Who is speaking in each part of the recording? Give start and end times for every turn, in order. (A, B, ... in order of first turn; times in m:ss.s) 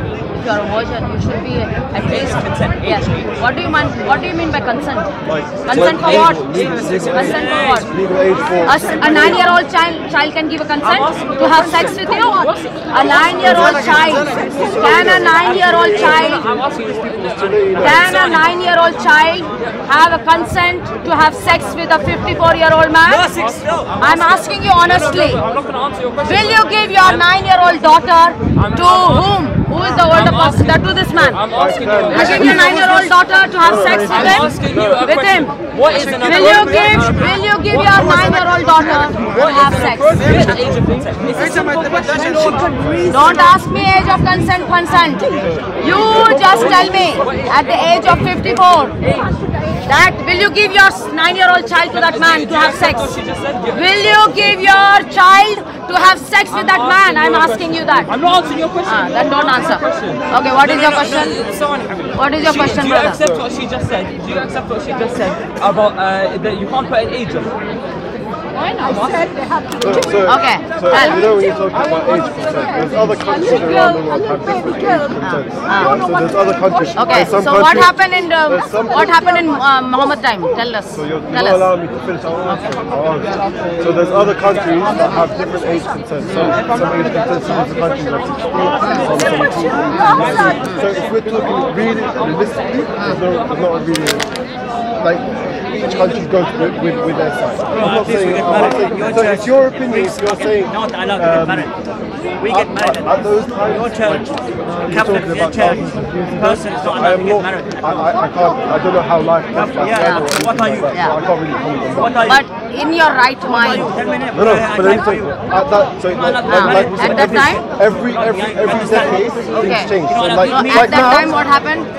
0:00.3-0:05.1 A
0:02.1-0:03.3 B
0:05.2-0:09.4 C
0:05.6-0:07.9 A
0:05.7-0:07.9 B
0:08.6-0:16.4 A
0:08.6-0:09.6 D
0:10.8-0:18.6 B
0:11.3-0:15.6 D
0:13.4-0:14.0 C
0:14.6-0:16.2 C
0:17.2-0:18.0 C
0:17.8-0:23.3 A
0:23.1-0:27.2 B
0:24.0-0:25.4 A
0:26.2-0:31.4 A
0:28.5-0:29.3 B
0:29.9-0:42.8 B
0:31.5-0:32.7 C
0:32.1-0:35.6 A
0:33.6-0:35.0 C
0:36.2-0:40.5 A
0:40.2-0:40.5 D
0:41.3-0:46.0 D
0:43.1-0:49.0 A
0:45.4-0:45.6 C
0:45.8-0:49.3 B
0:46.5-0:47.1 D
0:49.0-0:49.8 D
0:49.8-0:53.1 A
0:51.9-0:53.9 B
0:53.7-0:58.1 A
0:56.5-1:07.6 B
0:58.8-1:01.4 A
1:02.1-1:03.2 A
1:08.6-1:17.3 D
1:09.8-1:17.9 C
1:10.2-1:11.4 A
1:15.2-1:16.0 A
1:16.9-1:21.7 A
1:18.4-1:19.2 C
1:18.8-1:19.6 D
1:20.9-1:34.3 C
1:23.6-1:25.1 B
1:25.0-1:25.8 D
1:26.2-1:26.6 A
1:26.3-1:33.8 B
1:28.8-1:29.0 A
1:29.2-1:30.7 D
1:30.6-1:30.9 A
1:33.0-1:33.2 A
1:34.9-1:41.7 C
1:38.2-1:38.6 B
1:38.9-1:39.3 E
1:40.2-1:41.7 E
1:42.4-1:43.0 E
1:42.4-1:52.4 C
1:43.9-1:44.2 E
1:44.9-1:45.7 E
1:46.4-1:47.8 E
1:49.8-1:50.8 E
1:50.0-1:50.2 A
1:52.2-1:53.9 A
1:53.8-1:55.2 E
1:54.3-2:01.4 C
1:56.5-1:57.6 A
1:56.7-1:57.4 B
1:58.3-1:59.0 E
1:59.5-1:59.9 A
2:00.1-2:01.3 B
2:00.4-2:01.9 A